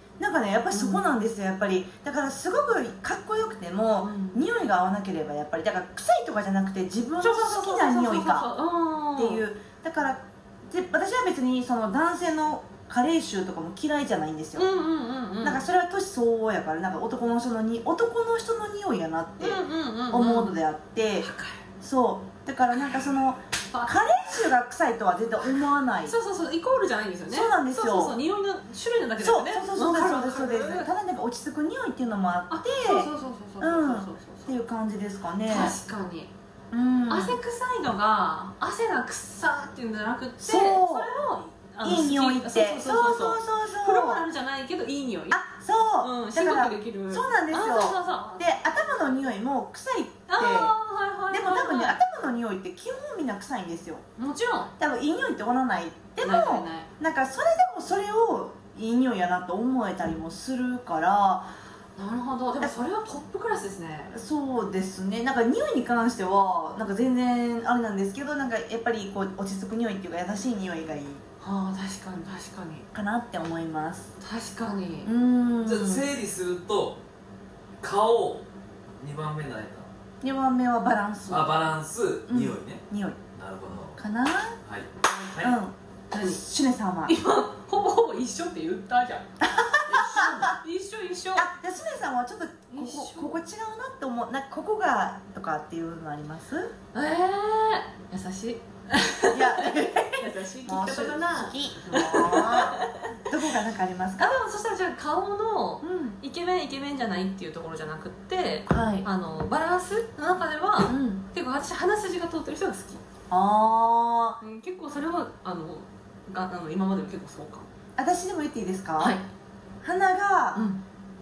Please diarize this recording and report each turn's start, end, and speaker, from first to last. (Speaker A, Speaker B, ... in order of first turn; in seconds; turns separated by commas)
Speaker A: 0.2-8.5, Speaker B: 0.7-1.1, Speaker B: 4.0-4.4, Speaker B: 7.2-9.4, Speaker A: 9.2-14.7, Speaker B: 14.6-15.7, Speaker A: 15.4-21.3, Speaker B: 19.4-20.5, Speaker B: 21.2-21.6, Speaker A: 21.8-26.1, Speaker B: 23.7-24.2, Speaker B: 26.1-30.9, Speaker A: 27.3-28.2, Speaker A: 29.2-35.8, Speaker B: 32.5-34.5, Speaker B: 35.5-36.3, Speaker A: 36.7-37.4, Speaker B: 37.1-45.4, Speaker A: 40.4-41.1, Speaker A: 41.8-44.2, Speaker A: 45.3-50.8, Speaker B: 46.0-48.7, Speaker B: 50.3-52.0, Speaker A: 51.3-54.0, Speaker B: 54.2-54.7, Speaker A: 54.8-61.5, Speaker B: 56.2-56.9, Speaker B: 62.0-64.1, Speaker A: 64.1-71.2, Speaker B: 71.4-72.9, Speaker A: 72.9-74.1, Speaker B: 74.2-75.1, Speaker A: 75.0-76.1, Speaker C: 75.7-77.0, Speaker C: 77.8-78.5, Speaker C: 79.0-79.9, Speaker A: 80.2-81.6, Speaker C: 81.3-82.8, Speaker A: 82.3-83.2, Speaker C: 83.4-84.0, Speaker A: 84.0-84.6, Speaker C: 84.7-85.6, Speaker A: 85.4-87.2, Speaker B: 86.1-86.4, Speaker B: 87.1-91.5, Speaker A: 89.6-90.5, Speaker A: 91.3-96.7, Speaker B: 92.7-93.4, Speaker B: 96.9-103.0, Speaker A: 99.3-104.4, Speaker B: 104.2-113.0, Speaker A: 105.8-106.2, Speaker A: 108.7-109.1, Speaker A: 110.9-111.2, Speaker A: 113.3-114.4, Speaker B: 114.4-117.7, Speaker A: 118.0-119.2, Speaker B: 119.0-119.2, Speaker A: 119.8-120.7, Speaker B: 120.5-120.8